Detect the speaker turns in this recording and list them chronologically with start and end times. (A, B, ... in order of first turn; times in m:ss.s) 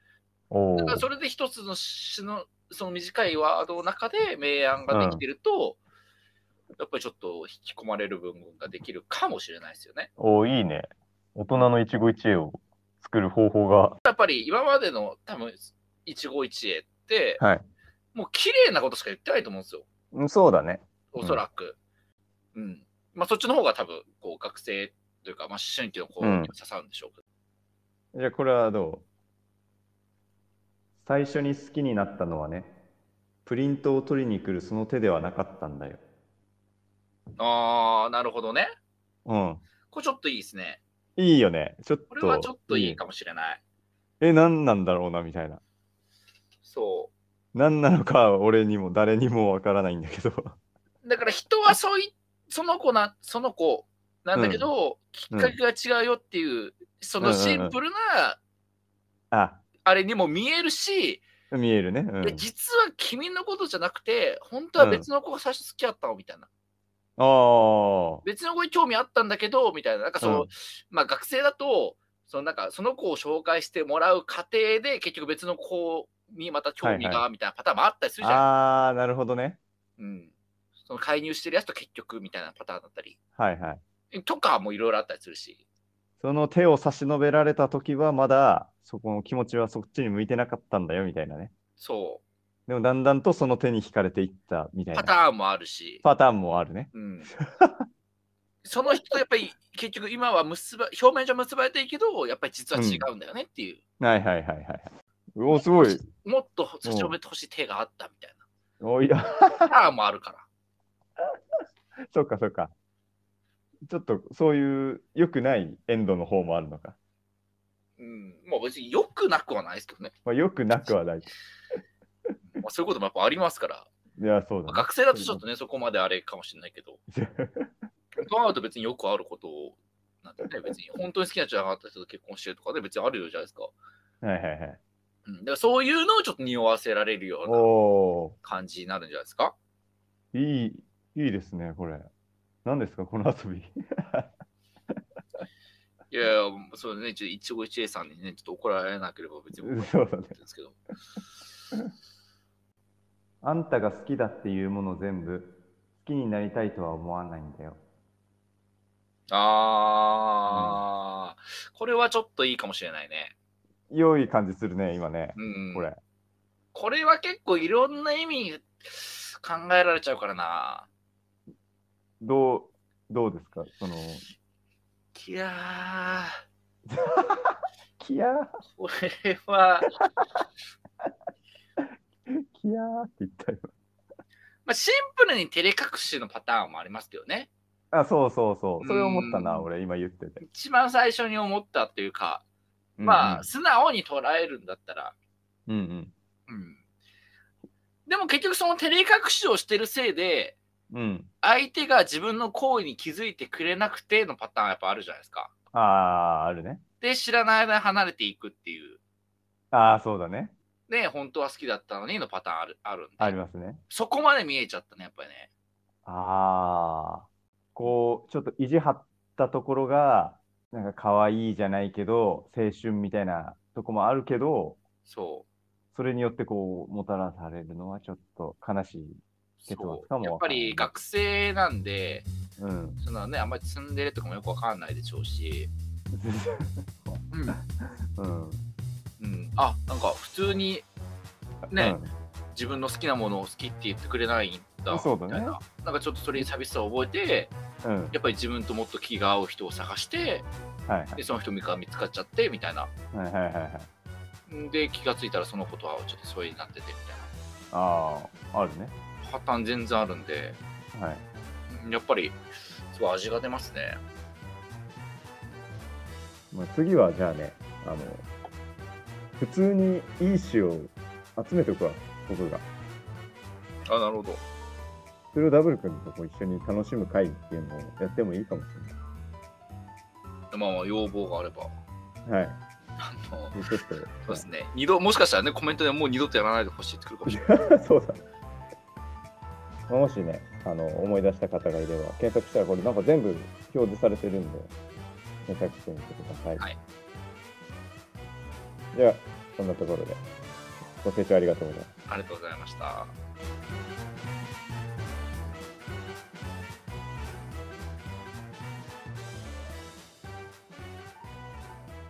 0:00.5-0:01.1 A
0:00.8-0:05.8 B
0:04.9-0:05.2 A
0:06.8-0:10.1 B
0:10.2-0:14.0 A
0:14.0-0:17.4 B
0:17.4-0:17.6 A
0:18.1-0:19.9 B
0:20.1-0:21.4 A
0:21.1-0:21.8 B
0:22.5-0:27.2 B
0:26.2-0:26.5 A
0:28.1-0:29.0 A
0:31.0-0:32.7 A
0:33.4-0:36.0 A
0:37.4-0:38.7 B
0:39.2-0:39.6 A
0:39.9-0:40.8 B
0:41.2-0:43.0 A
0:42.1-0:43.6 B
0:44.2-0:45.6 A
0:46.6-0:47.1 B
0:47.5-0:50.6 A
0:51.0-0:58.4 B
0:54.4-0:54.7 A
0:57.2-0:57.8 A
0:59.3-0:59.6 A
0:59.8-1:01.2 B
1:01.5-1:02.4 A
1:02.2-1:06.5 B
1:04.8-1:05.1 A
1:07.2-1:08.2 A
1:08.2-1:18.4 B
1:10.2-1:10.5 A
1:16.8-1:17.2 A
1:18.2-1:19.6 A
1:20.0-1:20.3 B
1:20.9-1:23.2 B
1:23.4-1:23.8 A
1:24.1-1:25.6 B
1:26.2-1:31.5 A
1:31.8-1:32.2 B
1:32.7-1:35.1 A
1:34.9-1:36.0 B
1:36.0-1:37.8 A
1:36.9-1:37.3 B
1:38.6-1:43.8 B
1:42.8-1:43.1 A
1:44.0-1:46.0 A
1:45.5-1:48.4 B
1:46.8-1:47.1 A
1:48.8-1:49.7 A
1:49.5-1:50.5 B
1:52.1-1:52.7 A
1:53.9-1:57.0 A
1:58.0-2:00.1 B
2:00.2-2:01.3 A
2:02.5-2:03.9 B
2:04.2-2:05.4 A
2:04.7-2:07.0 B
2:07.1-2:07.7 A
2:08.1-2:13.7 B
2:14.2-2:14.8 A
2:15.2-2:17.7 B
2:17.4-2:18.4 A
2:18.4-2:19.6 B
2:20.3-2:22.1 A
2:22.6-2:24.3 A
2:26.1-2:30.8 B
2:29.6-2:30.4 A
2:33.4-2:37.8 A
2:39.3-2:43.3 B
2:40.5-2:40.8 A
2:43.9-2:46.0 A
2:45.4-2:45.9 B
2:46.7-2:50.9 B
2:52.2-2:54.2 A
2:55.1-2:56.3 B
2:56.9-2:58.6 A
2:58.8-2:59.9 B
3:02.3-3:03.7 A
3:04.6-3:07.5 B
3:07.9-3:10.4 A
3:08.8-3:09.6 B
3:10.4-3:12.4 B
3:13.0-3:13.5 A
3:13.0-3:15.1 B
3:15.7-3:16.1 A
3:16.5-3:16.8 B
3:18.1-3:20.6 B
3:20.9-3:21.3 A
3:21.4-3:25.5 B
3:25.7-3:26.8 A
3:27.0-3:29.0 B
3:29.7-3:30.5 A
3:30.9-3:33.4 B
3:33.2-3:33.8 A
3:33.9-3:35.5 B
3:36.1-3:44.8 A
3:45.1-3:45.5 B
3:45.9-3:50.9 A
3:49.6-3:52.3 B
3:52.6-3:53.0 A
3:53.0-3:55.7 B
3:56.1-3:57.2 A
3:57.3-3:57.6 B
3:57.8-3:58.6 A
3:59.2-4:00.9 B
4:01.7-4:02.0 B
4:01.7-4:02.1 A
4:02.5-4:07.5 B
4:04.9-4:05.6 A
4:07.8-4:08.1 A
4:08.1-4:10.5 B
4:10.9-4:11.2 A
4:11.2-4:12.9 B
4:13.1-4:13.9 A
4:14.5-4:17.3 B
4:17.7-4:18.9 A
4:19.2-4:20.6 B
4:20.9-4:21.2 A
4:21.7-4:24.0 B
4:26.5-4:28.2 A
4:29.4-4:32.6 A
4:33.9-4:34.4 B
4:35.3-4:39.0 A
4:40.5-4:41.7 B
4:42.3-4:42.6 A
4:43.0-4:43.6 B
4:43.5-4:44.4 A
4:44.2-4:47.5 B
4:47.3-4:48.2 A
4:49.9-4:54.7 A
4:55.4-4:56.6 A
4:58.9-5:00.2 A
5:01.0-5:01.9 A
5:02.1-5:03.1 B